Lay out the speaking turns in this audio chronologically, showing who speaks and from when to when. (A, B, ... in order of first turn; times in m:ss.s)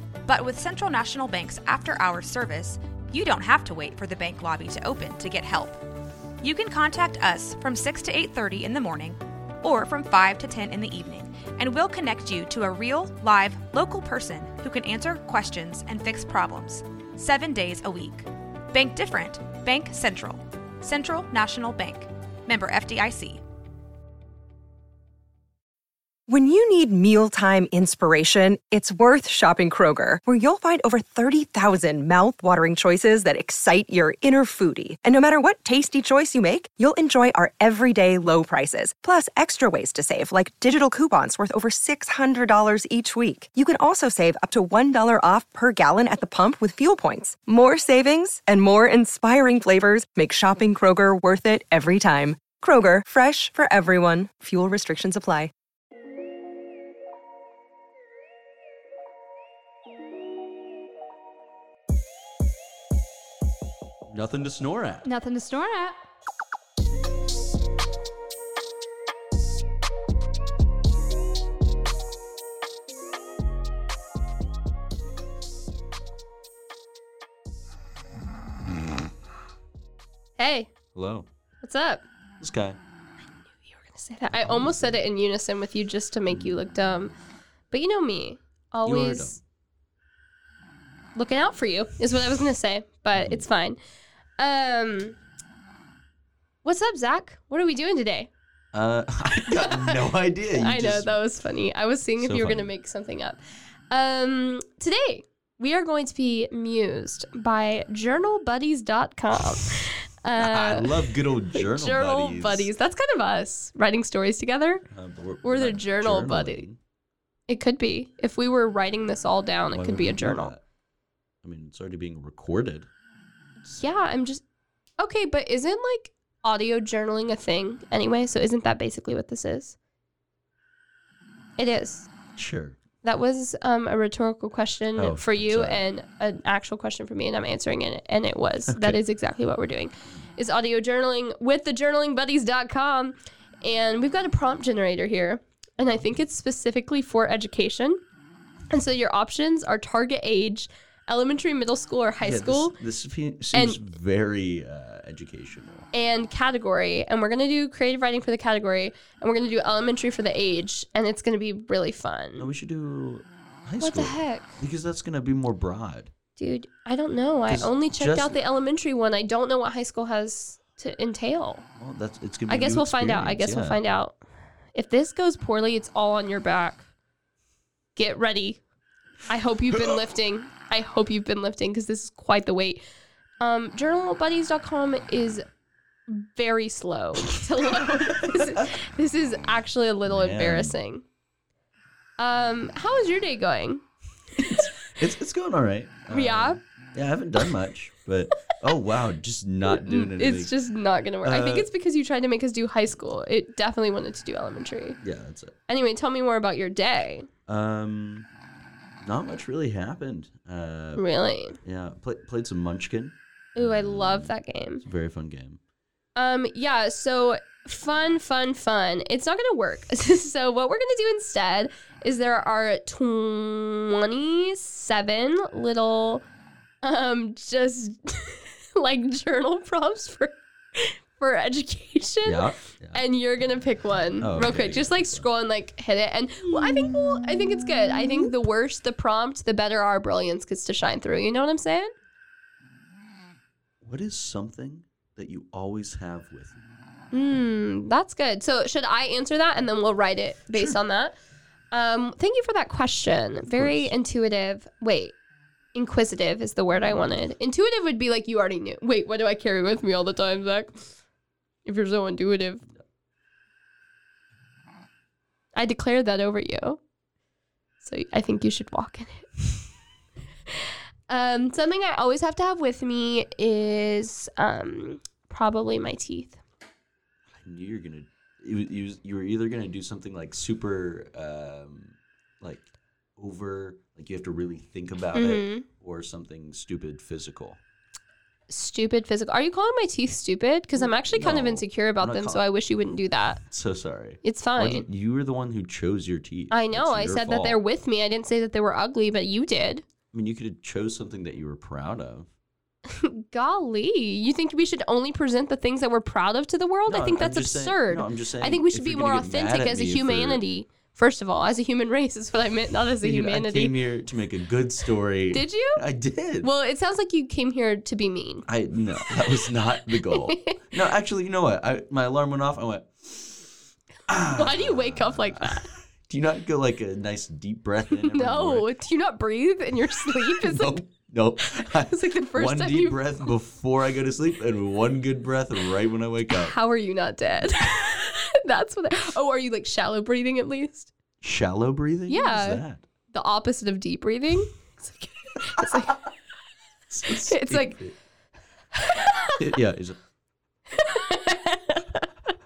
0:00.3-0:05.8 A
0:06.4-0:23.4 A
0:26.3-0:55.5 B
1:04.1-1:05.1 C
1:05.0-1:06.0 A
1:20.4-1:20.7 D
1:21.0-1:21.3 C
1:21.6-1:22.0 D
1:22.4-1:22.8 C
1:23.5-1:27.1 D
1:24.5-1:24.8 C
1:27.7-1:29.4 D
1:28.8-1:29.4 C
1:31.2-1:33.8 D
1:33.2-1:33.4 C
1:34.4-1:35.2 D
1:36.6-1:38.3 D
1:38.7-1:41.2 C
1:39.6-1:43.4 D
1:42.2-1:42.7 C
1:43.9-1:54.8 D
1:50.4-1:52.7 C
1:54.9-1:56.8 C
1:55.4-1:56.6 D
1:57.5-2:00.6 D
1:59.7-2:00.6 C
2:01.4-2:02.9 C
2:03.7-2:04.4 D
2:05.0-2:09.8 D
2:11.6-2:12.1 D
2:12.4-2:12.8 C
2:13.0-2:28.0 D
2:15.0-2:15.8 C
2:18.7-2:19.0 C
2:28.7-2:32.8 D
2:32.2-2:35.9 C
2:33.5-2:33.8 D
2:35.9-2:42.5 D
2:42.4-2:46.1 C
2:43.8-2:44.5 D
2:46.4-2:51.6 D
2:47.5-2:48.4 C
2:51.8-2:53.8 C
2:52.5-2:54.2 D
2:54.8-2:56.9 D
2:58.0-2:58.6 D
2:59.3-3:02.8 D
3:03.4-3:05.4 D
3:06.1-3:11.0 D
3:08.1-3:08.7 C
3:10.1-3:10.8 C
3:12.2-3:13.8 D
3:14.4-3:20.5 C
3:16.1-3:16.6 D
3:19.7-3:25.0 D
3:21.2-3:21.7 C
3:25.0-3:25.6 C
3:25.7-3:27.3 D
3:27.5-3:28.3 C
3:29.0-3:31.0 C
3:31.0-3:31.6 D
3:31.6-3:35.6 C
3:33.6-3:34.8 D
3:36.2-3:46.2 D
3:46.8-4:01.9 D
3:52.2-3:53.0 C
3:54.2-3:55.3 C
4:03.8-4:06.6 C
4:07.1-4:11.2 D
4:10.5-4:10.8 C
4:11.7-4:15.2 D
4:13.5-4:13.9 C
4:15.8-4:20.8 D
4:16.8-4:17.2 C
4:21.6-4:22.6 D
4:25.6-4:26.8 D
4:27.8-4:29.4 D
4:31.1-4:36.4 D
4:37.3-4:47.6 C
4:45.2-4:45.7 D
4:48.5-4:53.4 D
4:50.8-4:52.4 C
4:53.5-4:57.6 C
4:54.2-4:54.8 D
4:56.5-4:59.8 D
5:00.1-5:02.3 C
5:02.9-5:13.8 D
5:06.9-5:10.4 C
5:13.0-5:16.5 C
5:15.3-5:15.8 D
5:16.4-5:18.5 D
5:18.5-5:23.5 C
5:19.3-5:20.6 D
5:24.1-5:28.7 C
5:24.3-5:25.7 D
5:28.0-5:30.8 D
5:30.4-5:36.6 C
5:31.7-5:33.3 D
5:36.3-5:40.9 D
5:41.2-5:42.8 C
5:42.1-5:42.6 D
5:43.1-5:46.0 D
5:46.9-5:48.0 C
5:47.1-5:47.8 D
5:48.8-5:49.4 D
5:49.4-5:50.0 C
5:50.7-5:52.1 D